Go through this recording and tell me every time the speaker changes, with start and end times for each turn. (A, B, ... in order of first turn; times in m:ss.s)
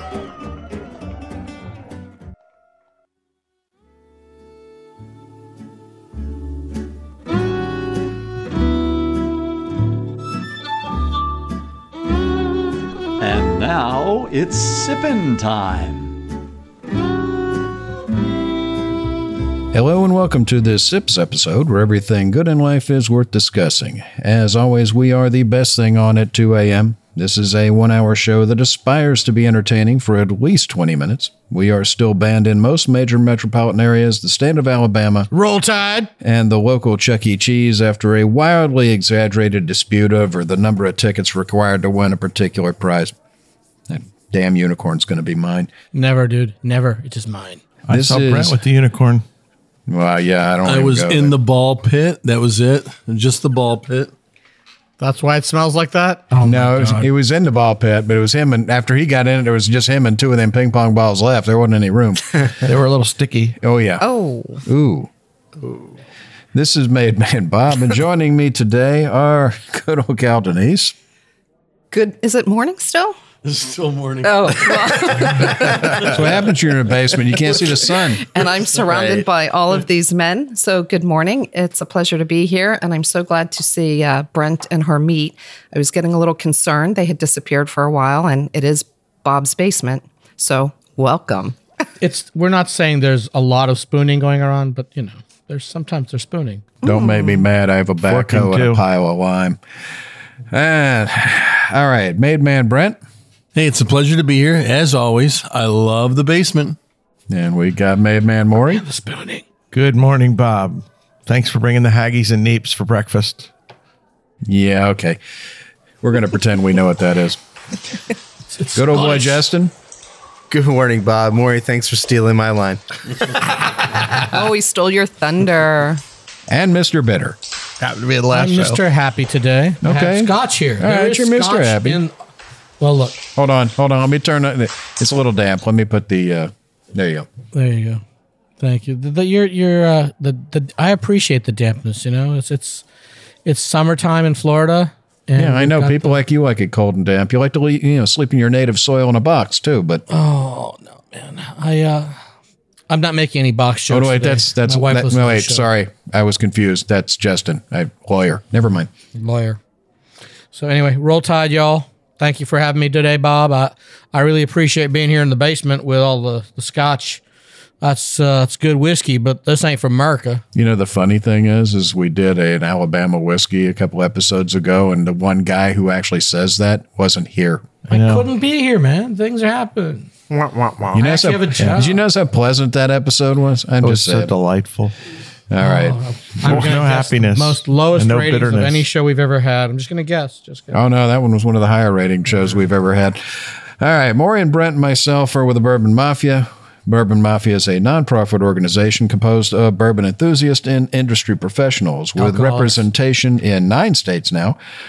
0:13.2-0:16.2 A
0:19.7-0:35.3 B
0:35.3-0:36.1 C
0:36.2-0:43.2 B
0:43.9-0:45.7 B
0:45.9-0:47.6 C
0:47.9-0:49.2 D
0:47.9-0:48.6 B
0:49.9-0:51.4 B
0:50.6-0:54.1 E
0:55.0-0:57.1 C
0:56.4-1:02.4 B
1:02.6-1:03.6 D
1:03.6-1:04.1 B
1:04.0-1:04.6 F
1:04.6-1:05.1 B
1:06.5-1:11.0 B
1:11.9-1:13.2 F
1:13.4-1:15.9 E
1:14.2-1:16.2 F
1:16.0-1:18.3 B
1:18.2-1:31.6 F
1:18.8-1:19.2 E
1:32.0-1:36.6 C
1:36.8-1:37.5 F
1:36.8-1:39.6 B
1:38.1-1:38.8 D
1:40.5-1:43.0 B
1:43.6-1:46.8 E
1:47.3-1:48.8 B
1:48.6-1:49.4 C
1:49.7-1:53.5 D
1:54.4-1:55.2 B
1:56.0-1:57.4 B
1:58.6-1:59.4 C
1:58.7-1:59.7 B
2:00.5-2:02.8 G
2:04.1-2:06.0 F
2:06.5-2:07.4 B
2:07.8-2:08.8 D
2:08.3-2:12.1 C
2:09.8-2:12.0 B
2:12.8-2:13.2 C
2:13.4-2:17.3 B
2:17.5-2:18.0 C
2:18.6-2:22.8 C
2:23.5-2:26.2 C
2:25.4-2:30.0 B
2:30.1-2:32.2 C
2:32.9-2:35.7 C
2:33.9-2:38.9 B
2:39.2-2:39.6 C
2:40.5-2:47.2 C
2:47.8-2:50.4 C
2:50.5-2:57.7 B
2:57.9-2:58.3 D
2:57.9-3:00.1 C
3:00.3-3:01.0 D
3:00.9-3:04.4 B
3:00.9-3:02.0 C
3:03.8-3:04.9 D
3:05.5-3:06.7 B
3:05.6-3:10.8 C
3:06.4-3:08.8 D
3:10.7-3:24.6 B
3:22.2-3:22.8 C